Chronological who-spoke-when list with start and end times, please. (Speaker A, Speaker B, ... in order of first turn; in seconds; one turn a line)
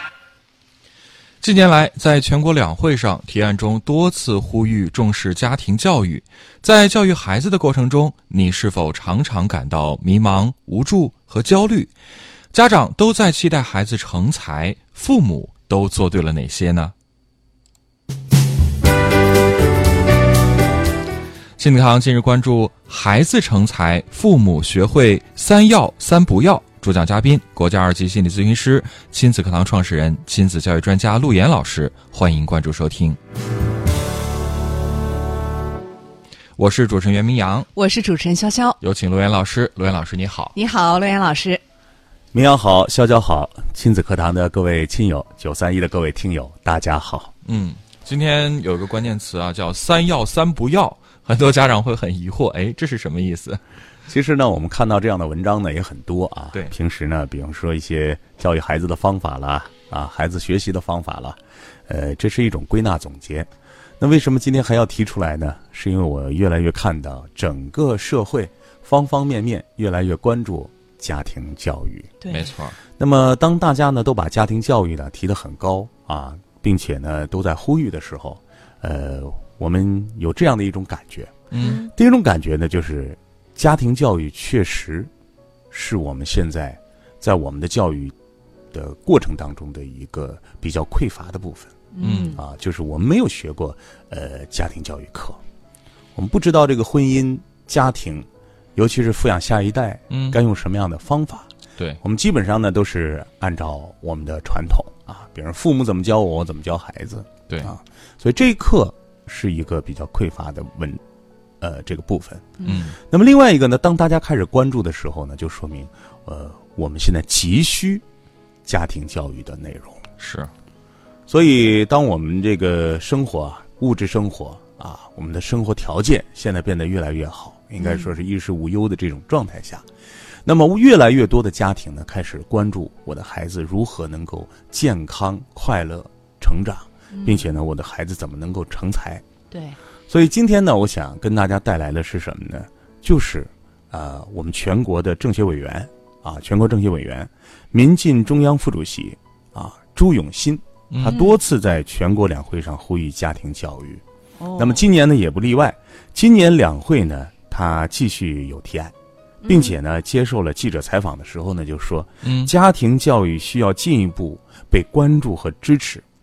Speaker A: 1.4-11.9
Speaker A: 12.5-16.9
Speaker A: 21.6-33.2
Speaker A: 36.6-37.7
Speaker B: 37.7-38.8
Speaker A: 38.8-40.5
Speaker B: 40.5-41.6
Speaker C: 42.3-47.3
Speaker A: 47.4-53.6
Speaker C: 54.1-72.1
Speaker B: 72.2-72.5
Speaker A: 72.3-72.8
Speaker C: 72.9-85.1
Speaker A: 81.5-81.8
Speaker B: 81.6-81.9
Speaker C: 85.7-88.1
Speaker C: 88.7-91.8
Speaker B: 91.9-92.4
Speaker A: 92.0-92.4
Speaker C: 92.3-95.4
Speaker C: 96.1-101.5
Speaker A: 100.1-100.4
Speaker C: 102.0-111.0
Speaker C: 111.6-118.0
Speaker A: 112.6-113.0
Speaker C: 118.6-120.0
Speaker A: 120.2-120.5
Speaker C: 121.3-129.8
Speaker B: 127.8-128.1
Speaker C: 130.4-139.2
Speaker B: 137.1-137.5
Speaker B: 139.5-139.8
Speaker C: 140.1-154.0
Speaker A: 150.9-151.3
Speaker B: 154.4-154.8
Speaker C: 154.6-158.9
Speaker B: 159.4-159.8
Speaker C: 159.5-166.0
Speaker A: 162.2-162.5